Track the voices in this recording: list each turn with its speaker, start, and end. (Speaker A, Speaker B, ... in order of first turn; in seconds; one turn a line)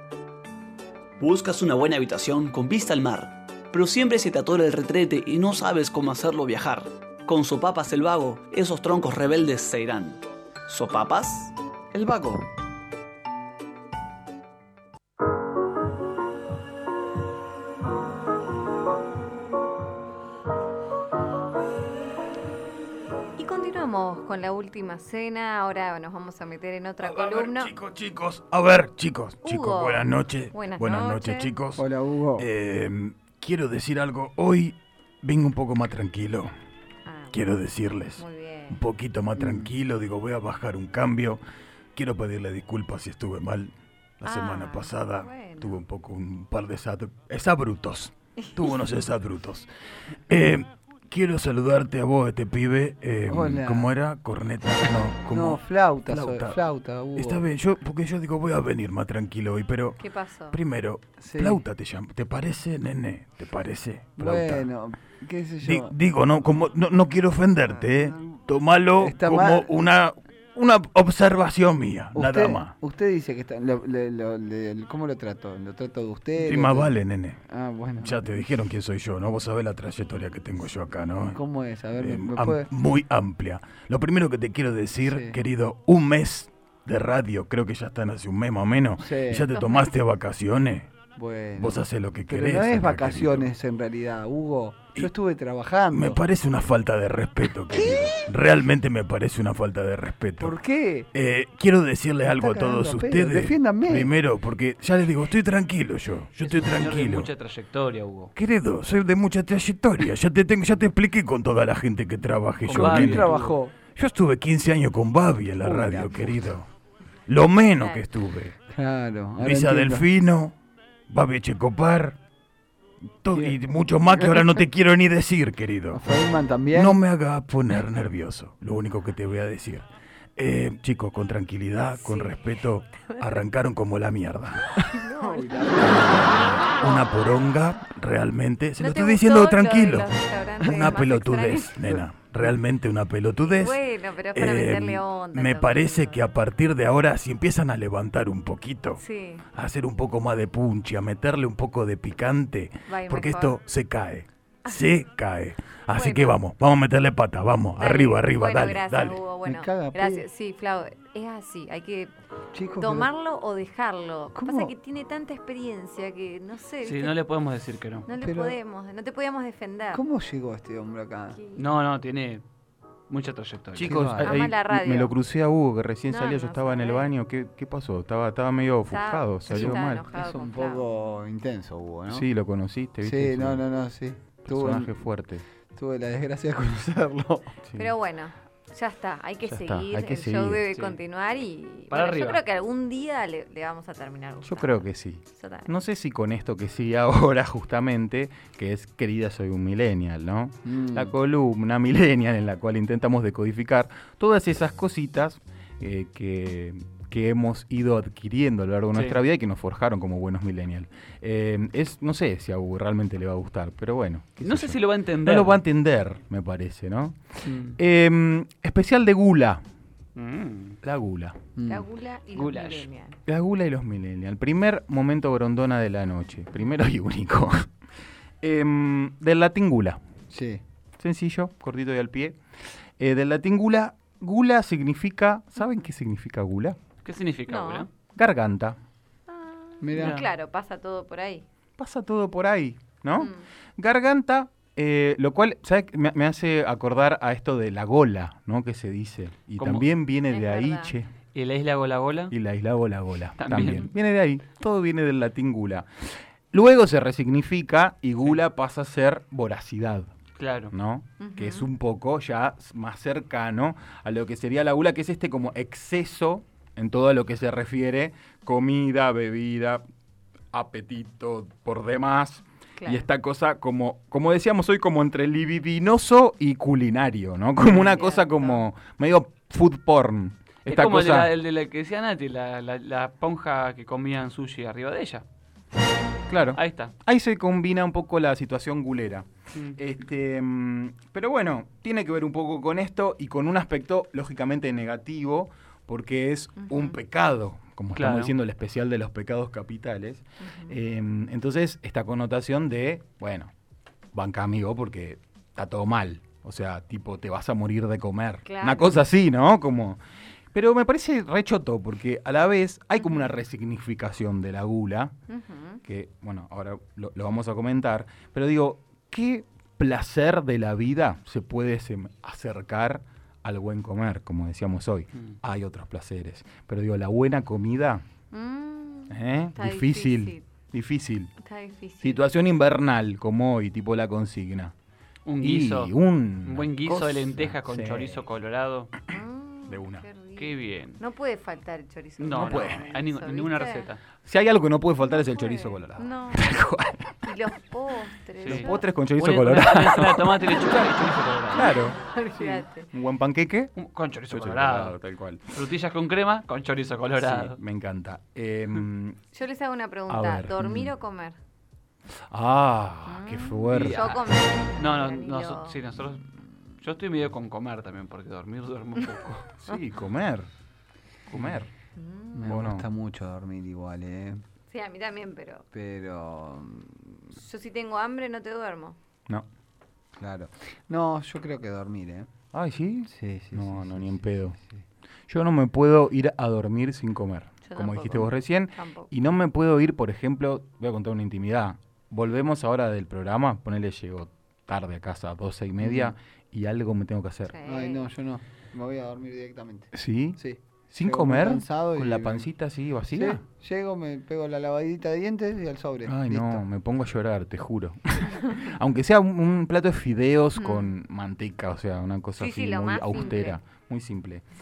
Speaker A: 1.2-11.5
Speaker B: 23.4-27.7
Speaker C: 27.0-31.9
Speaker B: 29.4-31.5
Speaker D: 31.8-32.5
Speaker C: 32.4-36.5
Speaker B: 37.1-37.4
Speaker C: 37.3-41.4
Speaker B: 38.2-38.8
Speaker D: 39.4-39.7
Speaker C: 41.9-49.7
Speaker B: 44.2-45.8
Speaker C: 50.3-56.6
Speaker D: 53.3-53.9
Speaker D: 55.3-57.4
Speaker C: 57.2-60.0
Speaker B: 60.0-60.6
Speaker C: 60.5-64.7
Speaker D: 61.2-61.6
Speaker D: 64.2-66.0
Speaker C: 65.6-72.8
Speaker D: 67.7-68.4
Speaker D: 69.0-69.7
Speaker D: 72.2-78.4
Speaker C: 76.4-77.4
Speaker C: 78.0-81.4
Speaker D: 81.3-82.7
Speaker C: 82.0-91.0
Speaker D: 85.0-85.4
Speaker D: 89.0-89.5
Speaker B: 89.5-89.9
Speaker D: 91.2-96.2
Speaker C: 91.5-93.5
Speaker C: 95.9-100.6
Speaker D: 97.7-98.2
Speaker D: 100.4-101.1
Speaker C: 101.1-107.3
Speaker D: 102.3-104.1
Speaker E: 106.4-108.3
Speaker C: 108.3-116.7
Speaker E: 112.6-113.6
Speaker D: 112.7-113.7
Speaker D: 115.6-116.4
Speaker C: 117.3-118.6
Speaker B: 117.8-118.0
Speaker D: 118.7-120.1
Speaker C: 119.4-120.5
Speaker C: 121.1-122.2
Speaker C: 123.2-126.0
Speaker D: 123.3-124.6
Speaker D: 125.9-127.0
Speaker C: 126.7-134.7
Speaker B: 131.9-133.5
Speaker B: 134.9-137.2
Speaker D: 135.2-136.8
Speaker C: 135.8-143.8
Speaker B: 138.8-141.8
Speaker B: 143.4-146.2
Speaker C: 144.3-149.0
Speaker B: 149.0-149.4
Speaker C: 149.5-159.2
Speaker B: 152.9-153.6
Speaker B: 155.9-156.4
Speaker B: 157.8-162.1
Speaker D: 159.4-160.2
Speaker D: 162.5-163.1
Speaker B: 162.8-167.1
Speaker D: 164.3-164.7
Speaker E: 166.8-168.1
Speaker B: 168.1-170.0
Speaker D: 168.2-168.6
Speaker D: 169.9-171.4
Speaker B: 171.3-171.6
Speaker E: 171.6-172.4
Speaker E: 173.1-174.1
Speaker F: 173.8-180.0
Speaker D: 173.8-174.3
Speaker B: 174.2-175.1
Speaker B: 176.1-177.1
Speaker B: 178.9-180.8
Speaker D: 179.5-182.3
Speaker F: 182.1-183.6
Speaker D: 183.0-184.9
Speaker F: 184.5-185.4
Speaker D: 185.8-187.5
Speaker F: 187.7-187.9
Speaker B: 187.8-194.7
Speaker F: 189.5-190.7
Speaker E: 191.9-192.4
Speaker F: 194.4-217.2
Speaker B: 195.3-195.7
Speaker D: 200.7-201.1
Speaker E: 208.9-209.2
Speaker E: 214.4-215.6
Speaker E: 217.4-217.8
Speaker F: 217.8-219.6
Speaker E: 220.2-220.8
Speaker F: 220.8-221.4
Speaker D: 221.6-221.9
Speaker B: 221.7-223.2
Speaker E: 222.3-222.9
Speaker F: 223.3-227.7
Speaker F: 228.4-230.0
Speaker D: 230.3-230.6
Speaker F: 231.0-232.4
Speaker F: 233.0-236.8
Speaker E: 237.0-237.9
Speaker B: 237.5-237.9
Speaker F: 238.2-238.8
Speaker B: 239.3-241.4
Speaker D: 239.8-240.2
Speaker E: 239.9-240.2
Speaker F: 241.8-251.1
Speaker B: 243.2-243.5
Speaker E: 249.6-249.9
Speaker B: 250.3-250.9
Speaker E: 251.3-252.3
Speaker F: 252.3-255.9
Speaker E: 253.4-253.9
Speaker F: 256.5-260.1
Speaker E: 260.4-260.7
Speaker F: 260.7-269.8
Speaker B: 261.2-261.7
Speaker F: 270.5-281.3
Speaker B: 272.8-273.1
Speaker B: 277.8-278.6
Speaker E: 280.6-285.2
Speaker F: 286.3-303.5
Speaker E: 286.6-286.9
Speaker B: 296.6-297.0
Speaker E: 298.0-298.3
Speaker B: 300.4-300.8
Speaker F: 304.1-310.0
Speaker B: 308.4-309.0
Speaker F: 310.5-315.1
Speaker B: 313.0-313.3
Speaker B: 315.3-315.8
Speaker F: 315.8-328.0
Speaker B: 328.3-330.4
Speaker F: 329.1-331.3
Speaker B: 331.4-332.2
Speaker F: 332.0-334.7
Speaker E: 335.3-338.9
Speaker F: 335.4-338.2
Speaker B: 339.1-343.9
Speaker F: 339.7-340.1
Speaker E: 340.4-341.0
Speaker E: 342.2-344.0
Speaker F: 342.3-342.9
Speaker F: 344.2-347.1
Speaker B: 345.0-346.5
Speaker B: 347.2-348.9
Speaker F: 348.4-350.4
Speaker E: 349.2-351.8
Speaker F: 351.5-353.7
Speaker B: 351.6-352.9
Speaker E: 353.8-354.9
Speaker F: 354.3-355.5
Speaker E: 355.5-357.6
Speaker F: 357.2-359.2
Speaker B: 359.3-361.4
Speaker F: 360.1-360.9
Speaker F: 362.3-364.1
Speaker B: 363.1-365.8
Speaker E: 363.7-364.2
Speaker E: 364.8-366.2
Speaker E: 366.8-369.5
Speaker F: 369.6-370.5
Speaker F: 371.3-371.7
Speaker B: 372.0-372.5
Speaker D: 372.4-374.4
Speaker F: 372.5-372.9
Speaker B: 374.7-375.6
Speaker D: 375.7-377.3
Speaker B: 377.3-379.0
Speaker D: 380.2-382.3
Speaker F: 382.5-384.6
Speaker D: 383.1-384.8
Speaker F: 385.3-397.5
Speaker B: 387.6-389.1
Speaker D: 395.8-396.1
Speaker B: 397.5-398.1
Speaker D: 397.7-402.5
Speaker F: 399.9-400.4
Speaker F: 400.9-403.4
Speaker D: 403.1-406.6
Speaker F: 406.1-414.4
Speaker B: 410.6-410.9
Speaker B: 412.4-413.6